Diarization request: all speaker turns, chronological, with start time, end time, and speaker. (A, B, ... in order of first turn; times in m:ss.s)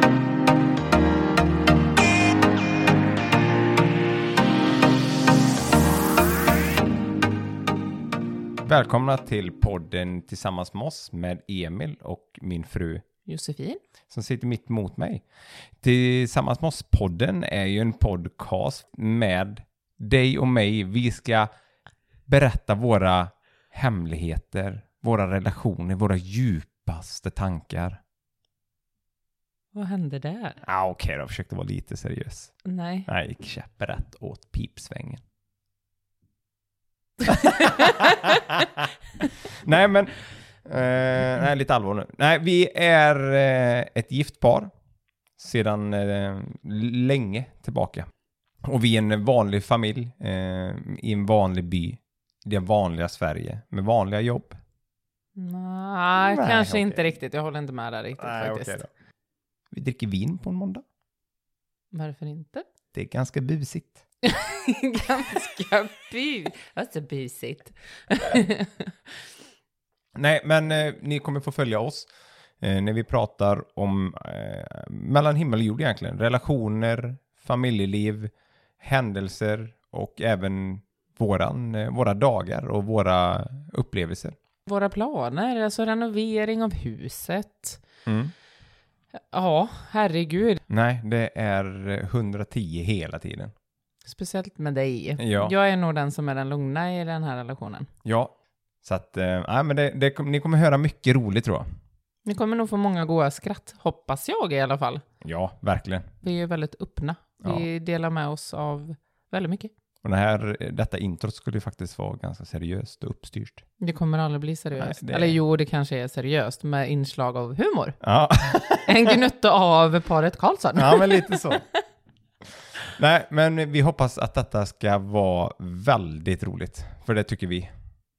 0:08.6-0:13.0 A
0:13.2-0:13.8 B
0:14.1-0:15.2 A
0:15.8-0:21.5 A
0:22.3-0:28.0 A
0:29.7-0:30.6 B
0:30.6-0:32.6 A
0:32.6-0:33.1 B
0:33.1-0:35.2 A
0:37.2-0:38.8 A
0:39.6-0:44.7 A
0:45.4-0:48.1 A
0:48.6-0:54.6 A
0:55.4-0:58.8 B
0:56.2-0:57.0 A
0:58.2-0:58.9 A
0:59.7-1:00.8 A
1:01.9-1:02.6 B
1:02.9-1:04.0 A
1:04.2-1:08.9 B
1:10.2-1:12.1 A
1:12.6-1:24.3 A
1:24.6-1:27.8 B
1:28.0-1:28.3 A
1:29.3-1:30.6 B
1:30.7-1:33.5 A
1:34.0-1:37.9 B
1:35.2-1:35.5 A
1:38.0-1:38.3 A
1:38.8-1:41.6 A
1:42.2-1:45.0 B
1:45.2-1:46.1 A
1:46.2-1:49.7 B
1:50.0-1:53.6 A
1:53.8-1:58.0 B
1:54.8-1:55.4 A
1:58.0-1:59.1 A
1:58.8-2:01.5 B
2:00.7-2:01.6 A
2:03.0-2:07.7 A